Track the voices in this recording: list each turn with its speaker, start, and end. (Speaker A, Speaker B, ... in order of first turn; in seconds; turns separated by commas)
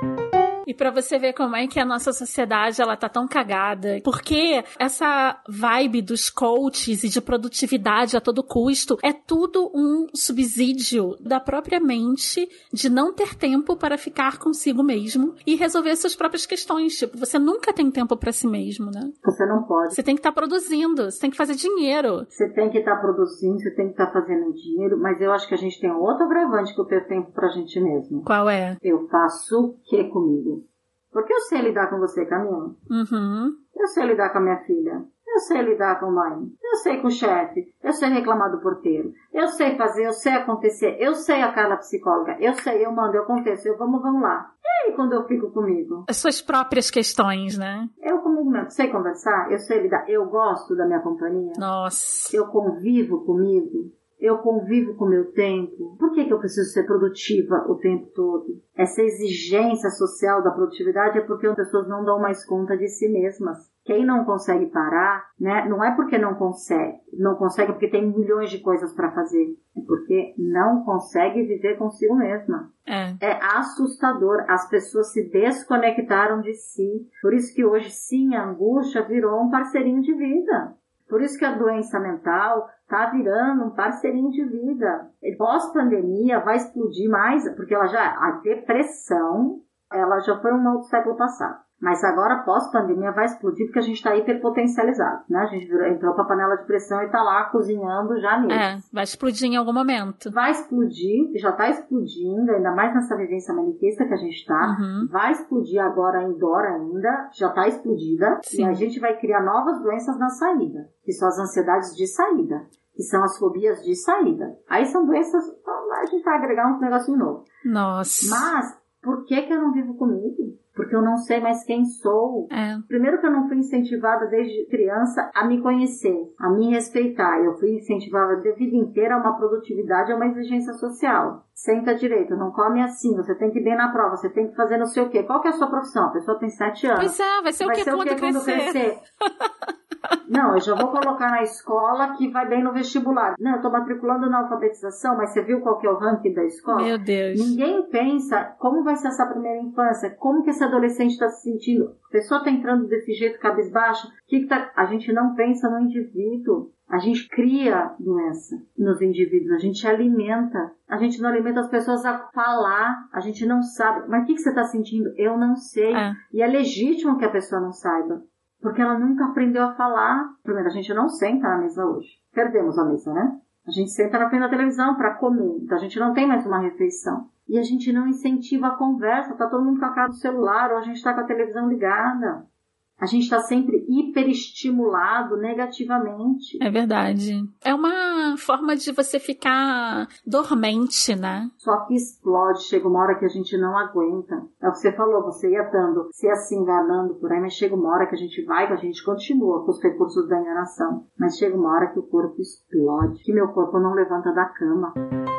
Speaker A: 0.7-19.1, Speaker B: 19.2-20.0, Speaker A: 19.9-22.3, Speaker B: 22.3-28.3, Speaker A: 28.3-28.8, Speaker B: 28.8-32.8, Speaker A: 32.9-33.6, Speaker B: 33.8-46.1, Speaker A: 46.1-47.9, Speaker B: 48.0-51.6, Speaker A: 51.6-52.4, Speaker B: 52.3-72.7, Speaker A: 72.9-73.2, Speaker B: 73.2-98.6, Speaker A: 98.5-100.3, Speaker B: 100.3-117.5, Speaker A: 104.6-105.1, Speaker A: 108.5-108.8, Speaker A: 117.7-118.5, Speaker B: 118.2-139.0, Speaker A: 122.5-122.8, Speaker A: 137.0-138.8, Speaker B: 140.3-182.4, Speaker A: 146.7-147.6, Speaker A: 165.9-166.2, Speaker B: 183.0-186.6, Speaker A: 186.6-191.5, Speaker B: 191.6-204.9